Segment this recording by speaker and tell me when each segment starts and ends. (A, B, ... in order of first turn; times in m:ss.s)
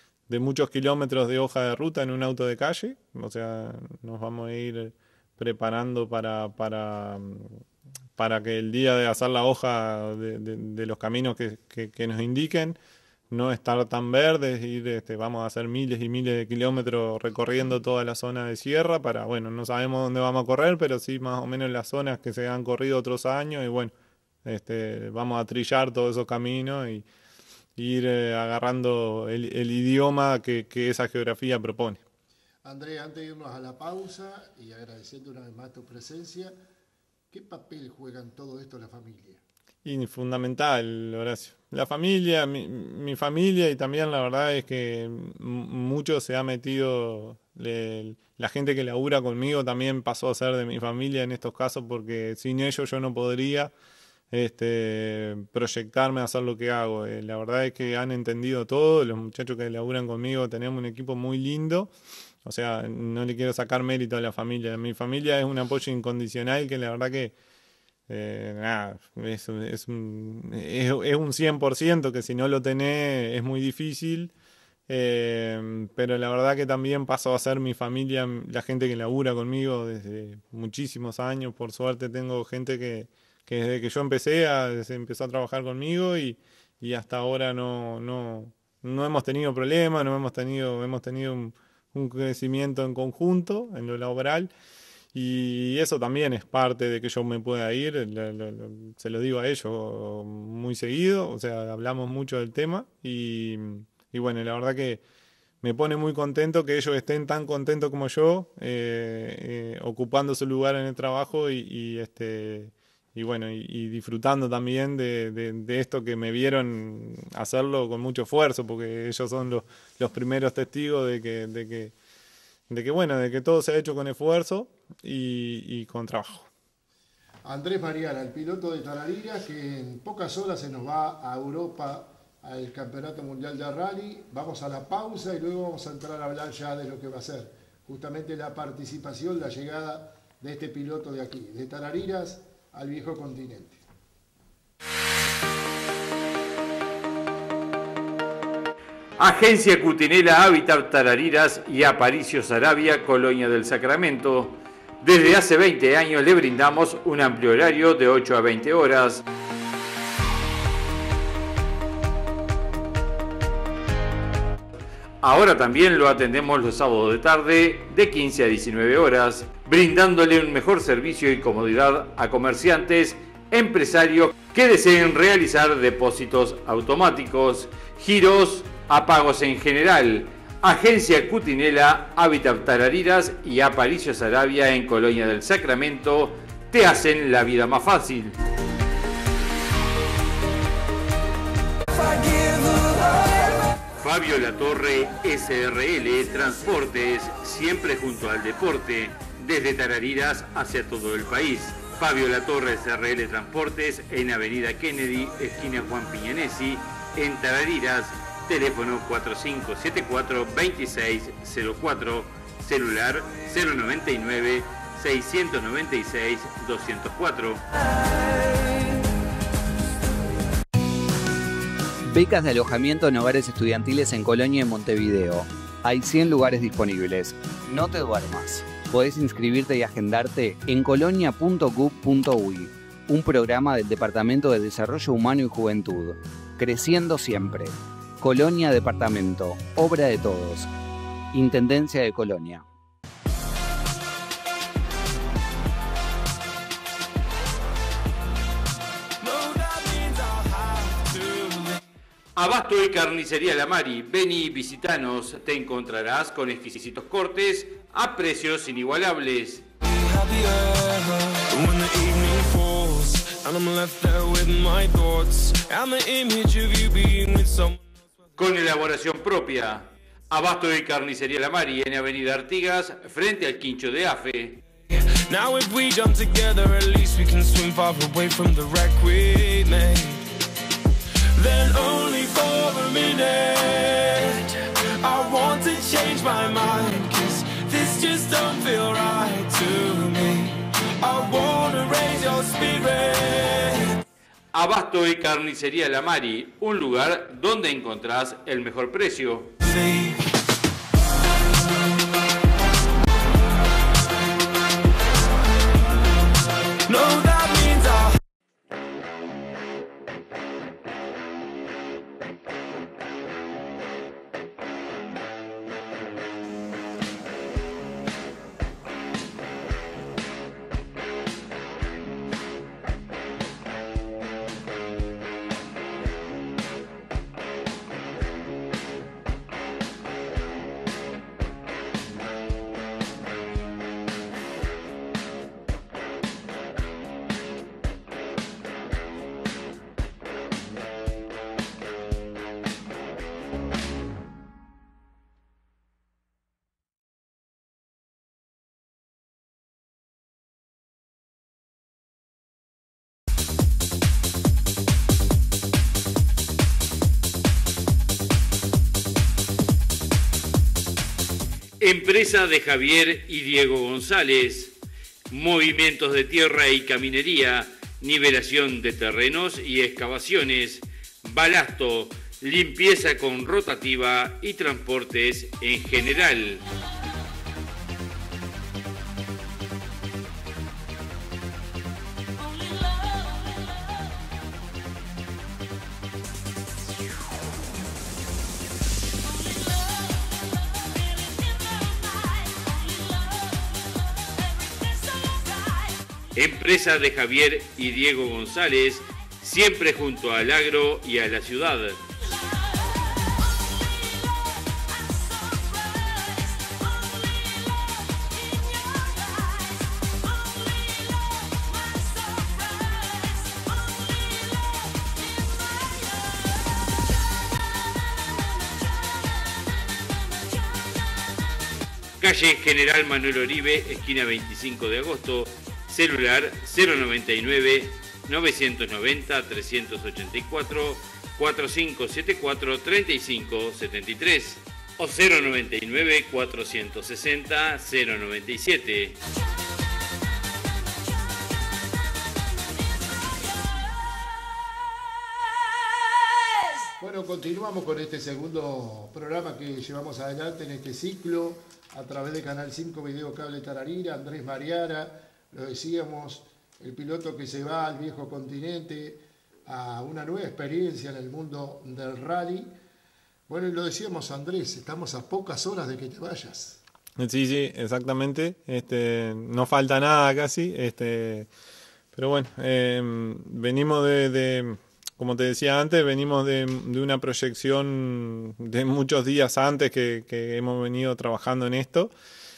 0:00.3-0:07.6 A
0:08.2-0:12.8 A
0:13.3-0:23.9 A
0:24.4-0:27.0 A
0:27.8-0:32.0 A
0:32.6-0:36.6 B
0:37.3-0:39.4 B
0:39.8-0:53.7 A
0:54.3-1:01.9 A
1:02.4-1:07.3 A
1:08.1-1:14.3 A
1:14.9-1:34.5 A
1:35.1-1:45.0 A
1:45.6-2:01.9 A
2:02.7-2:06.5 A
2:07.4-2:23.8 B
2:29.2-2:39.2 C
2:45.2-3:08.4 C
3:12.1-3:13.0 D
3:14.0-3:37.6 C
3:42.1-4:00.7 E
4:01.3-4:02.6 E
4:09.2-4:11.8 D
4:12.4-4:19.6 C
4:19.8-4:27.8 D
4:28.4-4:34.6 C
4:34.9-4:40.2 D
4:41.3-4:54.0 D
4:54.5-4:59.5 C
4:59.6-5:00.2 D
5:06.8-5:08.2 D
6:01.8-6:04.7 C
6:05.3-6:16.6 C
6:36.4-6:42.0 C
7:02.2-7:19.2 C
7:27.0-7:42.7 B
7:43.5-7:46.8 B
7:47.2-7:51.5 A
7:52.1-8:02.1 A